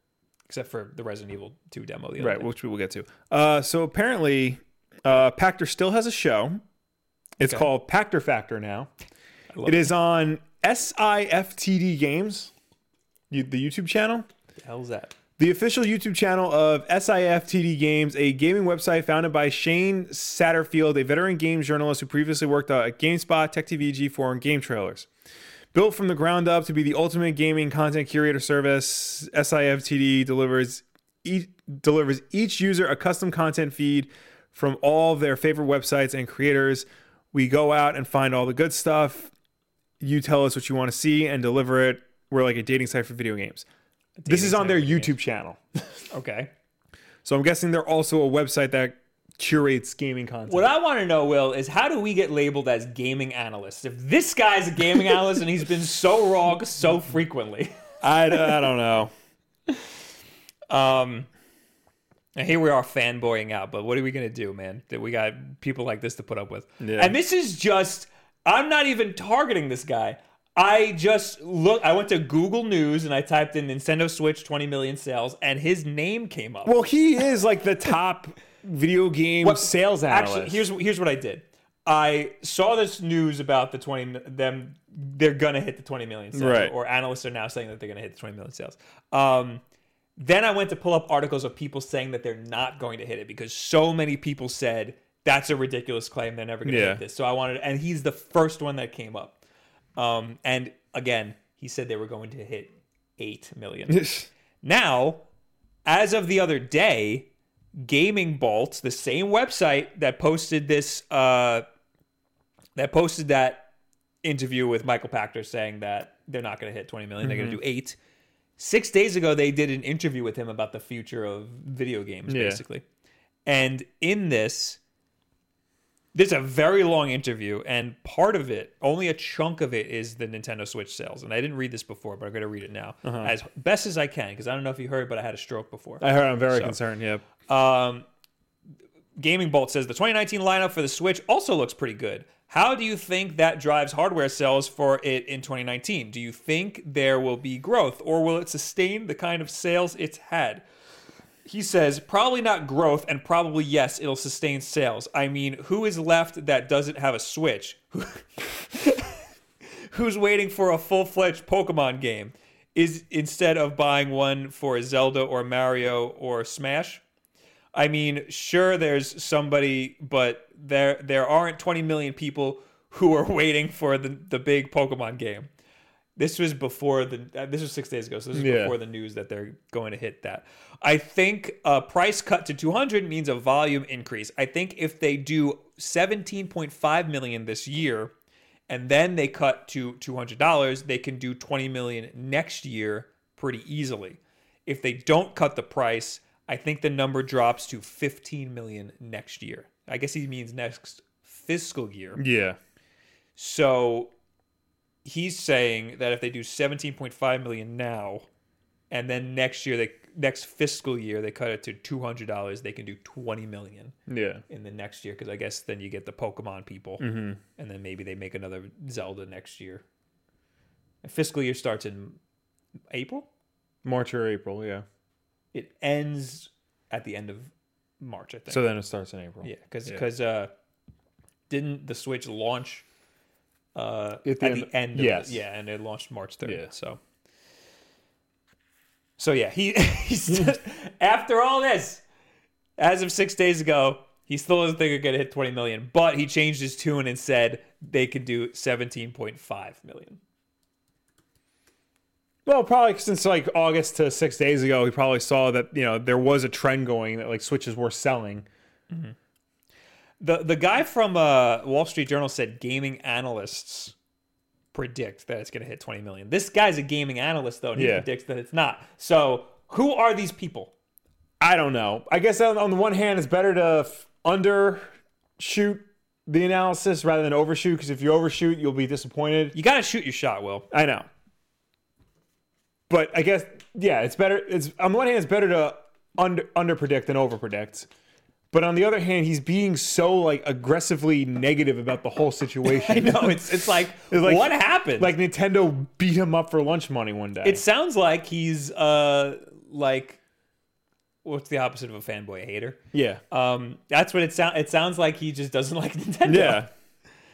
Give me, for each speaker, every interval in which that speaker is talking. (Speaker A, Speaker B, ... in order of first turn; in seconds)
Speaker A: 0.5-2.5, 7.4-7.7, 9.5-9.9, 14.6-15.2, 44.2-45.1, 46.1-46.5, 50.5-57.8, 60.7-61.3, 62.4-76.8, 79.4-89.6, 90.2-99.4, 100.0-104.1, 104.6-105.2, 105.8-107.3, 107.8-111.6, 112.8-113.7, 114.2-118.0, 118.6-122.8, 123.5-124.8, 126.1-136.8, 137.5-138.1, 139.2-150.7, 151.4-159.2, 159.9-167.0, 167.7-175.5, 176.2-188.1, 188.7-202.2, 203.3-204.1, 205.0-208.3, 208.9-213.9, 214.5-219.8, 221.0-222.2, 222.9-223.3, 225.5-228.7, 229.4-230.5, 231.5-232.8, 233.7-237.0, 239.2-242.0, 242.8-250.2, 258.9-259.1, 260.2-263.9, 264.7-270.7, 279.5-280.7, 292.6-295.1, 297.4-300.2, 301.2-302.8, 303.3-306.7
Speaker B: 2.2-6.6, 7.4-8.9, 9.6-12.5, 13.3-14.3, 15.4-25.1, 25.7-39.3, 40.0-43.6, 44.3-46.0, 47.2-50.7, 58.0-59.1, 66.8-67.2, 76.6-80.6, 86.3-86.7, 96.6-97.0, 103.9-104.3, 117.2-117.6, 122.3-122.6, 133.0-133.3, 136.0-137.2, 178.3-178.8, 202.2-202.6, 214.1-214.4, 217.0-217.4, 223.8-224.8, 228.5-230.0, 234.2-235.4, 252.4-258.4, 267.7-268.1, 271.4-274.8, 275.4-279.5, 280.7-281.1, 282.9-287.9, 288.5-297.6, 302.9-303.2, 306.2-306.7